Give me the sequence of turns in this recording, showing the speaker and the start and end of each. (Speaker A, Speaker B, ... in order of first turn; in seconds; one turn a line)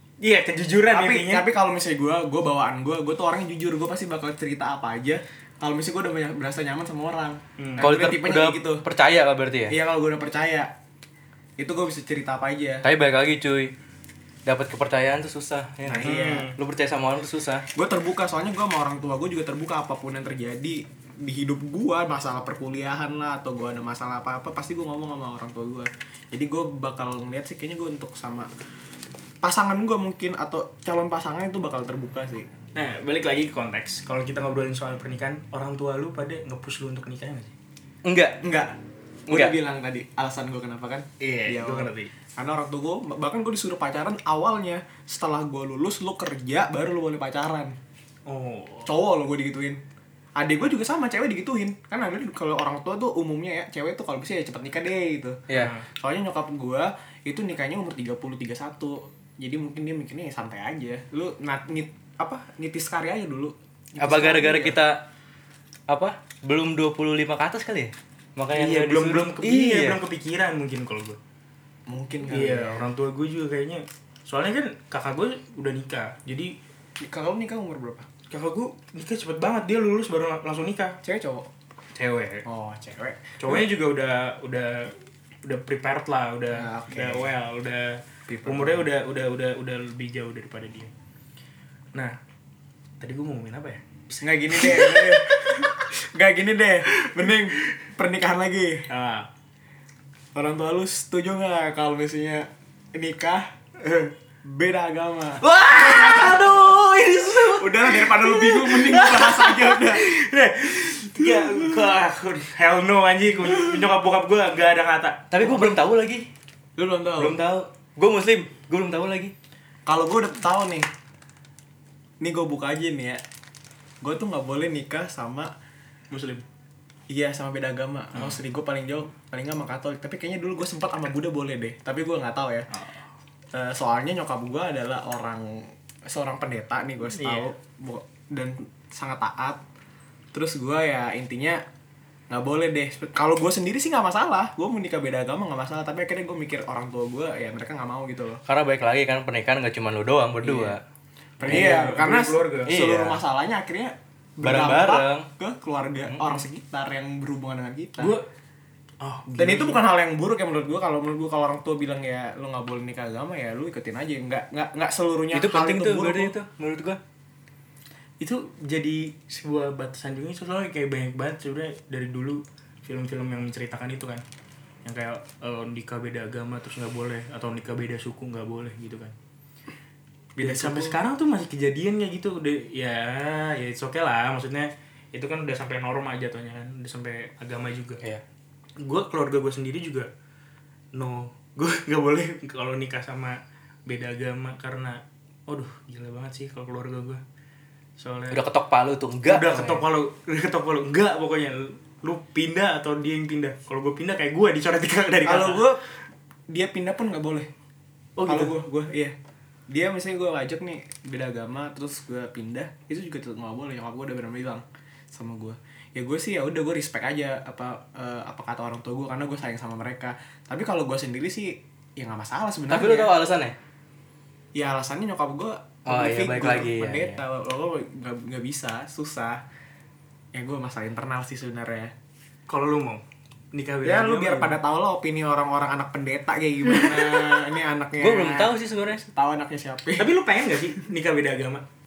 Speaker A: 0.2-1.4
Speaker B: 0.9-8.8
Speaker A: 7.6-7.9
Speaker C: 7.8-9.8
Speaker B: 9.7-10.7
Speaker B: 11.6-12.8
Speaker C: 12.8-13.7
Speaker C: 14.5-17.6
Speaker B: 15.9-16.5
Speaker A: 16.0-16.6
Speaker B: 17.8-28.5
Speaker B: 29.4-32.5
Speaker A: 32.8-37.5
Speaker C: 38.0-38.4
Speaker B: 38.4-47.8
Speaker C: 39.3-39.6
Speaker A: 41.2-42.1
Speaker A: 48.3-48.9
Speaker B: 48.9-49.8
Speaker B: 50.4-55.4
Speaker C: 55.5-55.7
Speaker A: 55.5-55.9
Speaker B: 56.0-64.8
Speaker C: 64.0-65.1
Speaker C: 65.9-70.0
Speaker A: 68.5-71.2
Speaker B: 71.9-72.9
Speaker A: 72.3-76.5
Speaker B: 77.0-78.1
Speaker A: 78.3-81.0
Speaker B: 81.0-81.5
Speaker A: 82.0-82.5
Speaker B: 82.5-83.7
Speaker A: 83.4-90.9
Speaker B: 86.5-87.3
Speaker B: 88.3-88.9
Speaker A: 93.0-93.8
Speaker B: 94.2-98.9
Speaker A: 94.6-95.2
Speaker A: 98.9-99.3
Speaker B: 100.3-106.4
Speaker C: 105.5-107.6
Speaker A: 105.9-115.5
Speaker B: 107.5-110.1
Speaker C: 115.3-116.3
Speaker B: 116.8-117.4
Speaker C: 117.2-119.3
Speaker B: 119.9-120.9
Speaker B: 122.2-123.2
Speaker B: 124.0-125.5
Speaker A: 126.1-126.5
Speaker B: 127.1-132.7
Speaker A: 128.2-128.4
Speaker A: 132.7-133.0
Speaker B: 133.5-139.6
Speaker A: 137.1-137.5
Speaker B: 140.3-141.6
Speaker B: 142.3-148.4
Speaker C: 148.5-150.8
Speaker B: 150.4-150.8
Speaker B: 151.4-158.2
Speaker A: 151.4-152.7
Speaker C: 151.4-151.9
Speaker C: 152.7-153.2
Speaker C: 154.4-155.3
Speaker A: 158.0-158.3
Speaker A: 159.0-159.8
Speaker B: 159.4-166.3
Speaker C: 165.3-167.0
Speaker A: 168.2-174.2
Speaker A: 174.8-179.1
Speaker B: 180.4-181.0
Speaker A: 180.4-188.0
Speaker A: 188.8-190.1
Speaker A: 190.9-197.2
Speaker A: 198.0-198.4
Speaker C: 198.3-199.8
Speaker A: 199.2-205.7
Speaker B: 205.2-205.8
Speaker B: 206.5-207.5
Speaker A: 208.2-208.6
Speaker B: 208.3-209.2
Speaker B: 209.7-223.1
Speaker C: 222.7-223.6
Speaker B: 224.6-229.4
Speaker C: 225.9-227.2
Speaker B: 230.3-231.9
Speaker A: 232.5-233.0
Speaker A: 233.5-234.6
Speaker B: 233.8-240.1
Speaker C: 238.0-239.1
Speaker A: 240.0-241.6